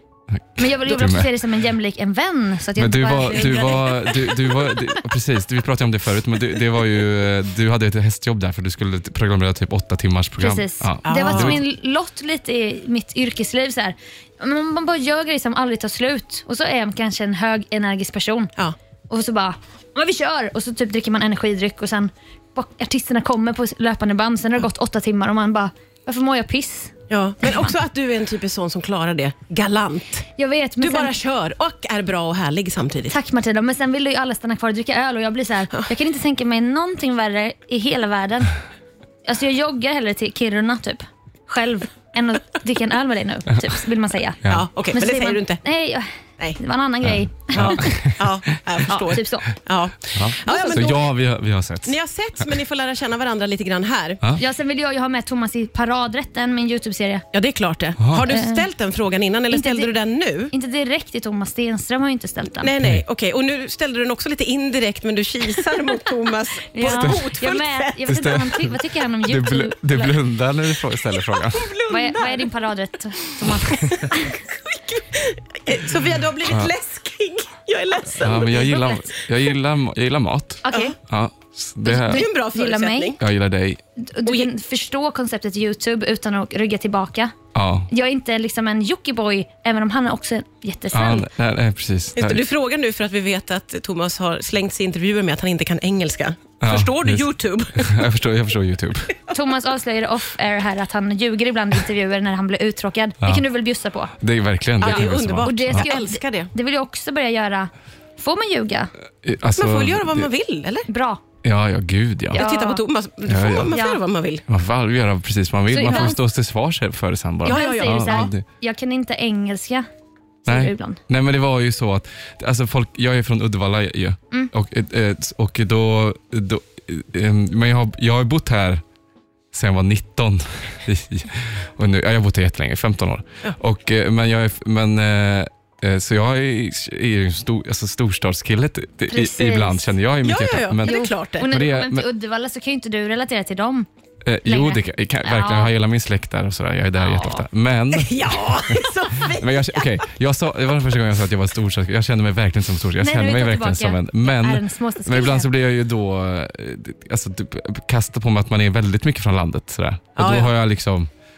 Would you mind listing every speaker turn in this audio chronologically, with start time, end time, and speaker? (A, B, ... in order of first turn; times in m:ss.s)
0:00.3-0:01.3 A
0:00.6-0:04.1 B
0:02.8-0:11.6 A
0:03.3-0:03.9 C
0:10.4-0:18.5 B
0:11.0-0:11.6 C
0:19.1-0:27.7 B
0:27.1-0:30.3 C
0:30.4-0:31.1 B
0:30.8-0:33.2 C
0:33.1-0:38.6 B
0:39.2-0:48.1 B
0:44.5-0:45.6 C
0:47.0-0:48.3 A
0:47.6-0:51.1 C
0:48.9-0:49.5 B
0:50.1-0:52.0 A
0:50.5-0:50.9 B
0:51.9-0:54.2 C
0:54.4-0:57.2 B
0:57.3-1:00.5 C
0:58.0-0:58.3 A
0:58.3-0:58.6 B
0:59.5-0:59.9 B
1:00.5-1:02.7 B
1:02.5-1:08.2 C
1:06.7-1:10.2 B
1:06.8-1:07.2 A
1:08.1-1:11.8 A
1:11.5-1:12.5 C
1:11.9-1:14.4 B
1:13.6-1:19.2 C
1:16.5-1:16.7 A
1:18.2-1:22.3 A
1:18.6-1:19.0 B
1:20.7-1:20.9 B
1:20.7-1:21.0 C
1:21.8-1:23.2 B
1:22.0-1:23.2 C
1:23.2-1:23.8 A
1:24.0-1:27.3 B
1:27.5-1:27.9 A
1:27.9-1:31.3 B
1:30.9-1:32.4 A
1:32.2-1:38.0 C
1:36.6-1:39.1 A
1:39.3-1:44.1 B
1:44.2-1:45.9 A
1:44.8-1:46.5 C
1:44.8-1:48.9 B
1:49.2-1:50.3 A
1:49.6-1:50.9 C
1:50.9-1:51.2 B
1:51.4-1:52.4 A
1:52.3-1:52.8 B
1:52.3-1:54.4 C
1:53.3-1:53.8 A
1:53.7-1:54.0 B
1:54.5-1:58.4 A
1:55.7-1:56.2 B
1:55.8-1:56.2 C
1:57.4-1:58.3 C
1:57.4-1:59.9 B
2:00.4-2:01.0 B
2:00.5-2:08.8 A
2:09.5-2:22.1 A
2:19.1-2:19.8 B
2:20.2-2:21.5 C
2:20.8-2:23.9 B
2:24.2-2:41.1 A
2:24.4-2:25.7 B
2:27.0-2:27.4 B
2:27.9-2:30.0 C
2:33.0-2:35.5 B
2:40.2-2:40.5 C